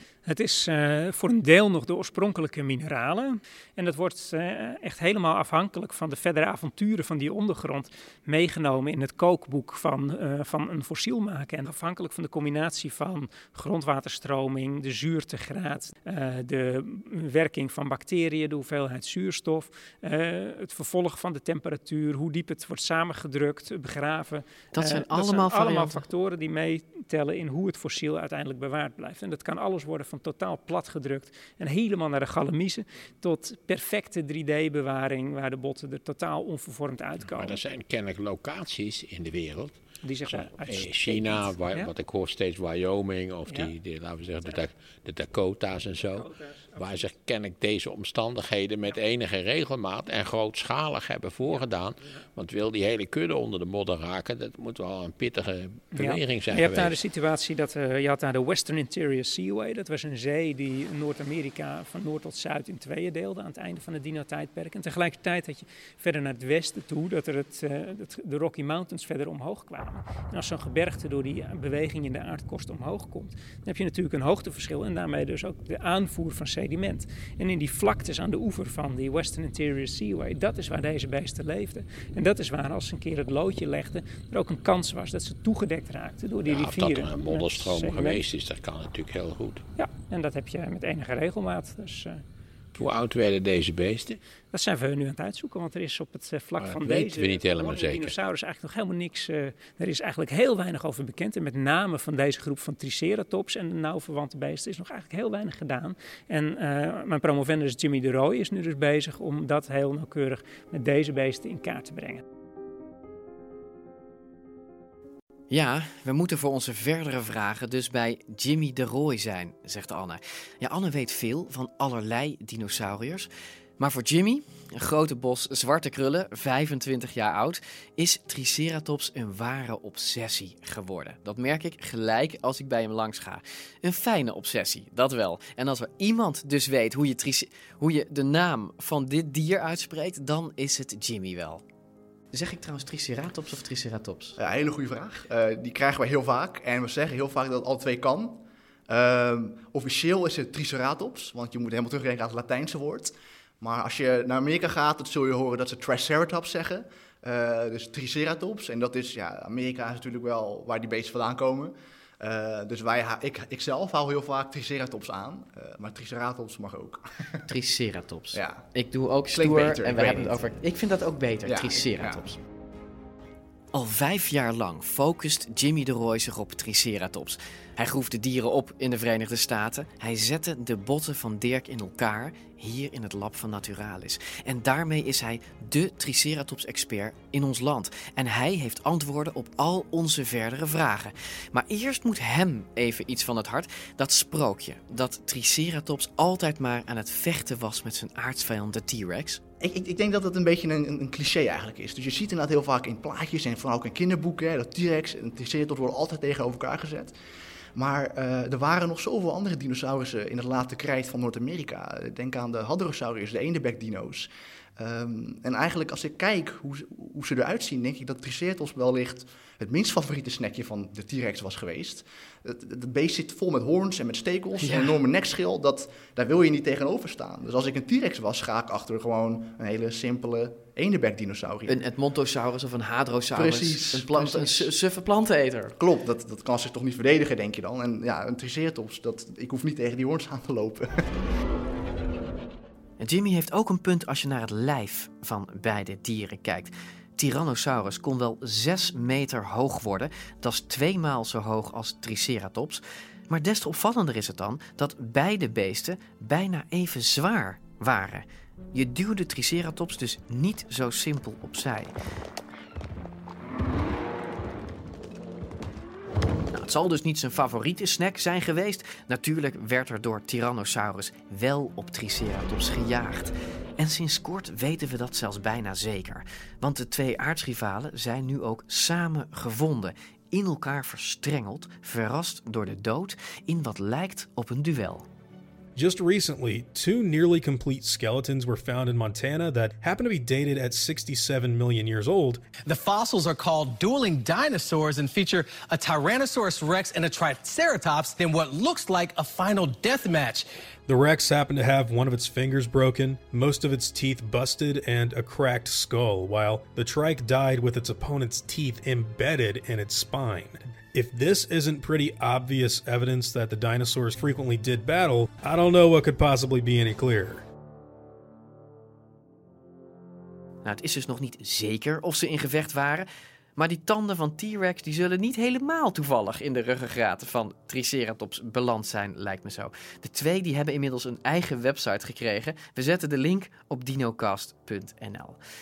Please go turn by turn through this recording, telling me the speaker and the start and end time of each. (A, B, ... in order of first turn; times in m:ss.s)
0:00.2-0:37.6 A
0:24.7-0:26.0 B
0:37.2-0:39.7 C
0:40.0-0:41.9 A
0:40.3-0:57.0 C
0:46.1-0:47.0 A
0:55.9-1:28.2 A
1:26.4-1:29.6 C
1:29.8-1:32.2 A
1:32.8-1:34.2 C
1:34.5-1:52.2 A
1:36.6-1:38.1 C
1:55.5-2:21.6 B
2:22.3-2:24.4 B
2:24.4-2:47.0 D
2:47.5-2:52.4 B
2:48.3-2:48.6 D
2:49.3-2:50.4 D
2:51.4-2:52.4 D
2:53.7-3:19.4 B
3:19.6-3:27.1 D
3:27.7-3:51.8 D
3:44.6-3:45.0 B
3:51.6-3:55.8 B
3:53.3-3:54.7 D
3:55.8-4:01.0 D
4:03.0-4:21.9 B
4:26.5-4:45.1 B
4:45.8-4:52.5 E
4:52.6-5:00.4 F
5:00.9-5:17.4 E
5:20.6-5:35.4 B